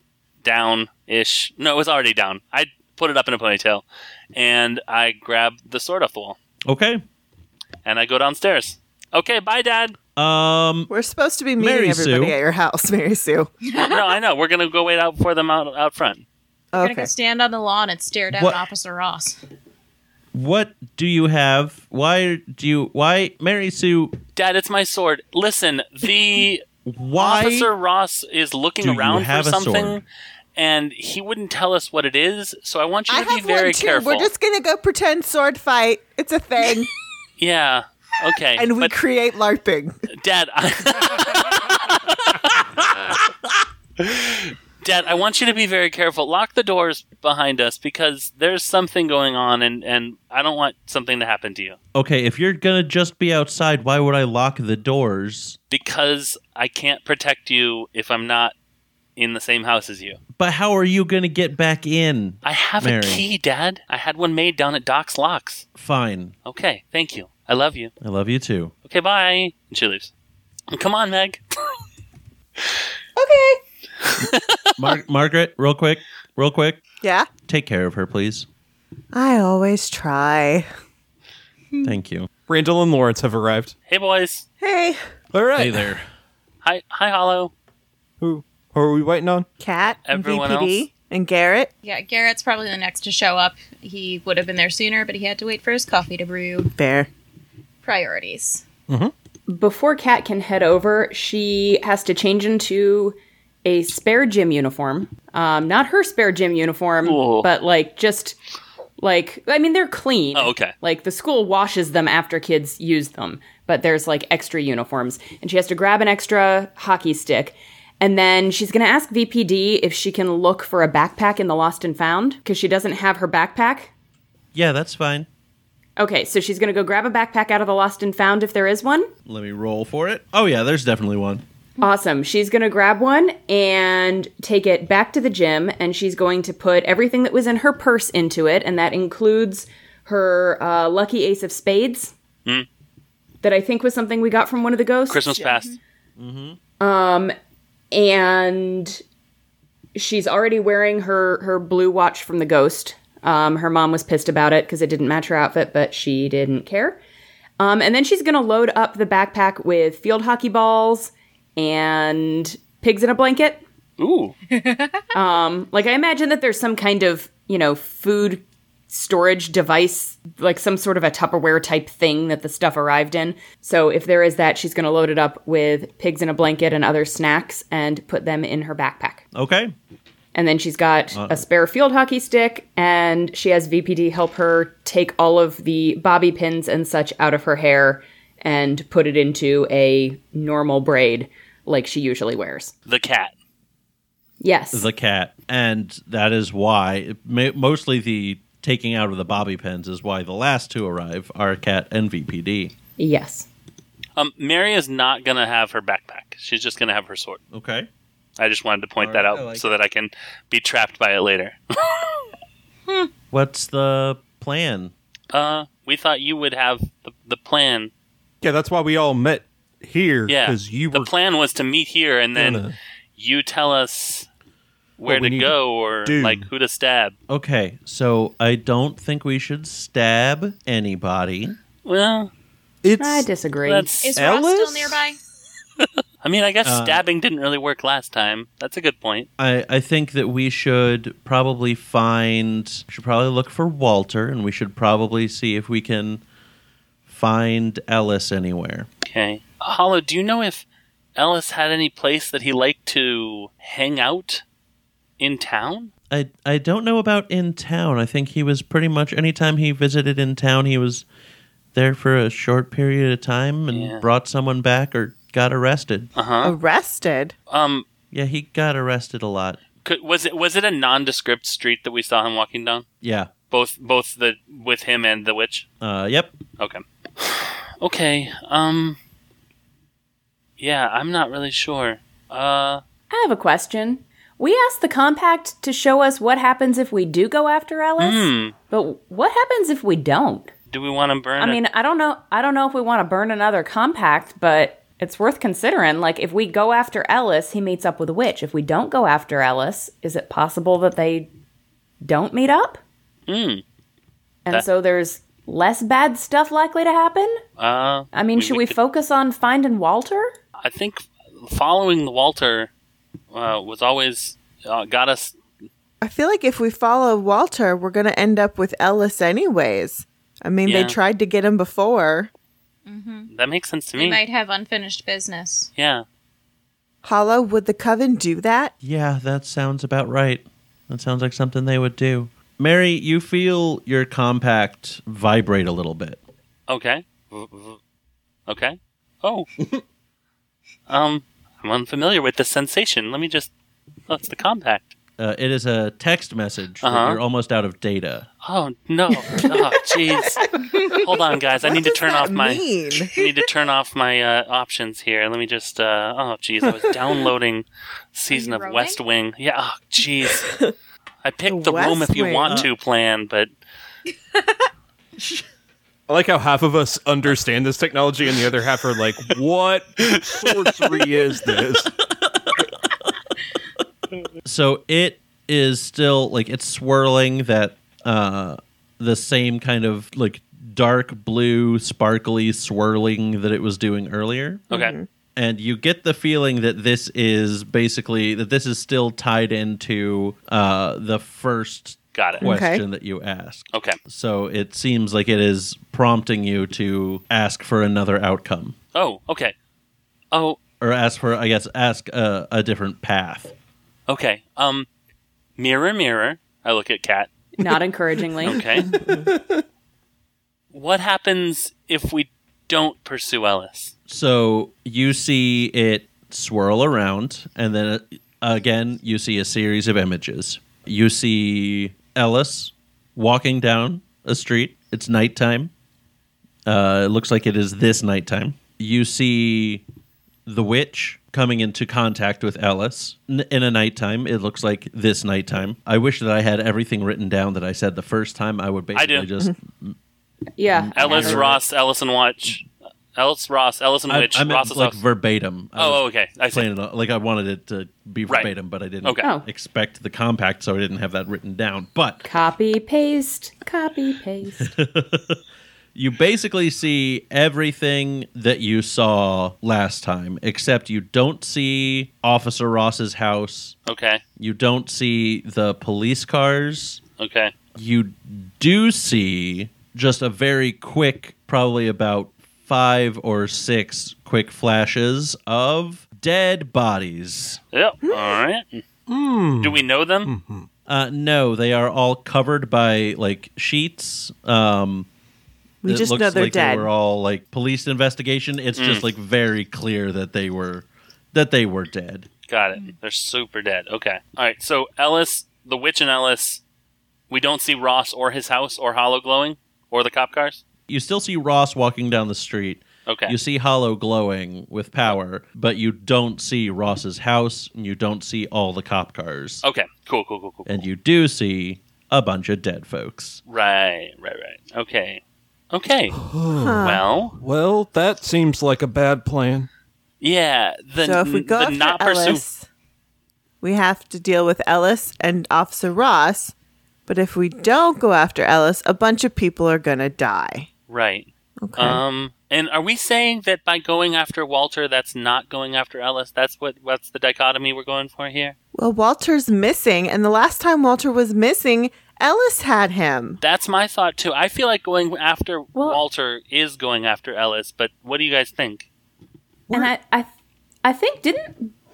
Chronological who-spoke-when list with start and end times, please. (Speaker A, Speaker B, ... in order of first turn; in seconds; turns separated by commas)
Speaker A: 0.4-6.4, Speaker B: 6.7-7.0, Speaker A: 7.8-10.0, Speaker B: 10.2-10.9, Speaker C: 10.9-13.5, Speaker B: 11.6-12.3, Speaker D: 13.7-14.1, Speaker A: 13.8-16.2, Speaker C: 16.7-17.1, Speaker D: 16.8-19.4, Speaker B: 18.3-18.6, Speaker B: 20.3-24.2, Speaker A: 24.4-26.6, Speaker B: 26.9-27.7, Speaker A: 27.2-30.0, Speaker B: 28.8-30.0, Speaker A: 30.6-34.3, Speaker C: 33.1-36.9, Speaker A: 37.4-38.9, Speaker C: 38.6-40.0, Speaker A: 40.1-43.2, Speaker A: 44.0-51.8, Speaker B: 51.9-55.6, Speaker A: 55.7-58.5, Speaker A: 59.2-60.2, Speaker B: 60.4-63.2, Speaker A: 62.4-65.7, Speaker B: 65.8-66.3, Speaker A: 66.5-67.9, Speaker B: 68.0-68.7, Speaker A: 68.9-70.1, Speaker A: 70.7-71.4, Speaker C: 73.2-73.6, Speaker A: 74.2-74.6, Speaker B: 74.8-76.8, Speaker C: 77.0-77.3, Speaker B: 77.5-78.5, Speaker C: 79.1-80.7, Speaker B: 81.8-82.3, Speaker E: 82.5-83.7, Speaker A: 83.9-84.5, Speaker C: 84.6-85.0, Speaker E: 85.3-85.9, Speaker B: 85.6-86.1, Speaker A: 86.6-87.5, Speaker E: 88.2-89.5, Speaker C: 89.6-91.7, Speaker A: 90.1-90.8, Speaker D: 91.8-96.7, Speaker C: 96.8-97.1, Speaker D: 97.8-98.7, Speaker F: 99.5-108.4, Speaker A: 107.0-107.5, Speaker F: 109.0-123.9, Speaker A: 110.3-110.7, Speaker B: 124.5-125.3, Speaker F: 126.0-129.1, Speaker B: 129.3-131.4, Speaker F: 131.8-142.1, Speaker F: 143.4-145.4, Speaker A: 145.1-145.8, Speaker B: 146.2-146.6, Speaker F: 146.8-147.3, Speaker F: 147.9-149.0, Speaker F: 149.9-157.0, Speaker F: 157.6-163.6, Speaker A: 164.0-164.3, Speaker D: 164.5-165.0, Speaker F: 165.1-179.2, Speaker B: 179.3-179.7, Speaker F: 180.3-192.7, Speaker B: 181.1-181.4, Speaker A: 192.9-193.3, Speaker F: 194.4-194.9, Speaker B: 194.7-202.7, Speaker F: 203.0-203.5, Speaker A: 204.2-207.4, Speaker B: 207.5-207.9, Speaker A: 208.4-211.8, Speaker B: 209.0-209.7, Speaker B: 213.3-214.9, Speaker A: 215.3-217.9, Speaker E: 218.4-221.1, Speaker A: 220.3-224.3, Speaker E: 222.3-222.8, Speaker A: 225.0-227.2, Speaker E: 225.1-225.5, Speaker E: 226.1-226.5, Speaker B: 227.3-231.6, Speaker A: 231.8-232.3, Speaker E: 232.8-233.3, Speaker F: 233.0-233.9, Speaker A: 233.7-234.2, Speaker D: 234.0-235.2, Speaker E: 234.2-235.0, Speaker A: 235.8-239.3, Speaker B: 236.6-237.0, Speaker B: 239.4-246.2, Speaker B: 247.1-248.9, Speaker A: 249.0-250.7, Speaker A: 251.2-254.4, Speaker A: 255.2-255.9, Speaker B: 256.1-261.1, Speaker B: 261.7-266.1, Speaker A: 263.7-264.1, Speaker A: 266.2-266.6, Speaker C: 266.4-267.3, Speaker A: 267.5-267.9, Speaker B: 268.1-269.6, Speaker A: 269.9-272.9, Speaker B: 273.0-273.3, Speaker A: 273.5-275.7, Speaker B: 275.8-276.3, Speaker A: 276.6-279.0, Speaker A: 280.6-282.8, Speaker F: 283.1-290.5, Speaker A: 288.0-288.6, Speaker A: 290.7-291.6, Speaker F: 291.4-301.3, Speaker F: 302.0-302.8, Speaker A: 303.3-303.6, Speaker F: 304.5-307.4, Speaker A: 307.6-308.8, Speaker F: 308.1-310.3, Speaker A: 310.6-312.7, Speaker A: 313.3-315.4, Speaker C: 316.0-322.3, Speaker A: 320.6-321.0, Speaker D: 322.9-323.3, Speaker A: 323.3-324.2, Speaker D: 324.0-325.7, Speaker A: 325.8-326.1, Speaker C: 327.0-328.7, Speaker B: 328.8-336.2, Speaker A: 336.7-337.8, Speaker A: 338.5-339.5, Speaker A: 340.9-343.5, Speaker A: 344.1-344.9, Speaker B: 345.2-348.3, Speaker A: 346.8-347.2, Speaker A: 348.4-360.6, Speaker C: 351.6-353.1, Speaker D: 358.3-359.0, Speaker A: 361.2-363.5, Speaker C: 361.5-362.7, Speaker E: 366.1-371.9, Speaker A: 370.0-371.1, Speaker B: 372.1-372.6, Speaker B: 374.4-384.7, Speaker C: 384.7-385.1, Speaker B: 385.4-398.8, Speaker A: 392.1-392.5, Speaker C: 392.4-392.8, Speaker A: 393.7-394.0, Speaker A: 398.9-399.5, Speaker A: 400.3-400.6, Speaker B: 400.8-403.5, Speaker A: 404.1-404.9, Speaker A: 405.6-407.3, Speaker F: 407.6-408.6, Speaker A: 408.4-408.9, Speaker E: 409.0-409.4, Speaker A: 410.7-413.9, Speaker B: 414.1-425.7, Speaker B: 426.7-429.8, Speaker B: 430.5-439.9, Speaker A: 438.9-439.3, Speaker F: 440.6-441.6, Speaker B: 440.7-441.6, Speaker A: 441.0-445.0, Speaker B: 444.1-452.2, Speaker A: 445.8-446.7, Speaker F: 452.2-454.7, Speaker B: 454.6-455.4, Speaker B: 455.9-463.8, Speaker A: 463.9-464.2, Speaker B: 464.4-467.0, Speaker A: 467.2-467.5, Speaker B: 467.8-477.6, Speaker A: 477.7-478.8, Speaker C: 478.1-478.4, Speaker E: 479.1-480.7, Speaker A: 479.6-480.3, Speaker B: 480.9-485.1, Speaker C: 485.8-486.9, Speaker B: 485.9-492.3, Speaker A: 488.8-489.1, Speaker A: 492.5-496.6, Speaker A: 497.3-500.6, Speaker B: 500.9-509.6, Speaker A: 503.1-503.4, Speaker A: 509.6-510.9, Speaker B: 510.7-513.4, Speaker A: 513.5-516.2, Speaker E: 516.2-519.7, Speaker C: 516.6-517.0, Speaker A: 516.8-517.4, Speaker A: 520.2-522.4, Speaker C: 521.0-522.7, Speaker C: 523.6-526.5, Speaker C: 527.1-530.7, Speaker A: 530.9-538.6, Speaker C: 531.6-532.0, Speaker C: 538.7-543.4, Speaker A: 543.4-548.9, Speaker F: 545.8-546.0, Speaker F: 549.7-550.3, Speaker F: 550.8-551.7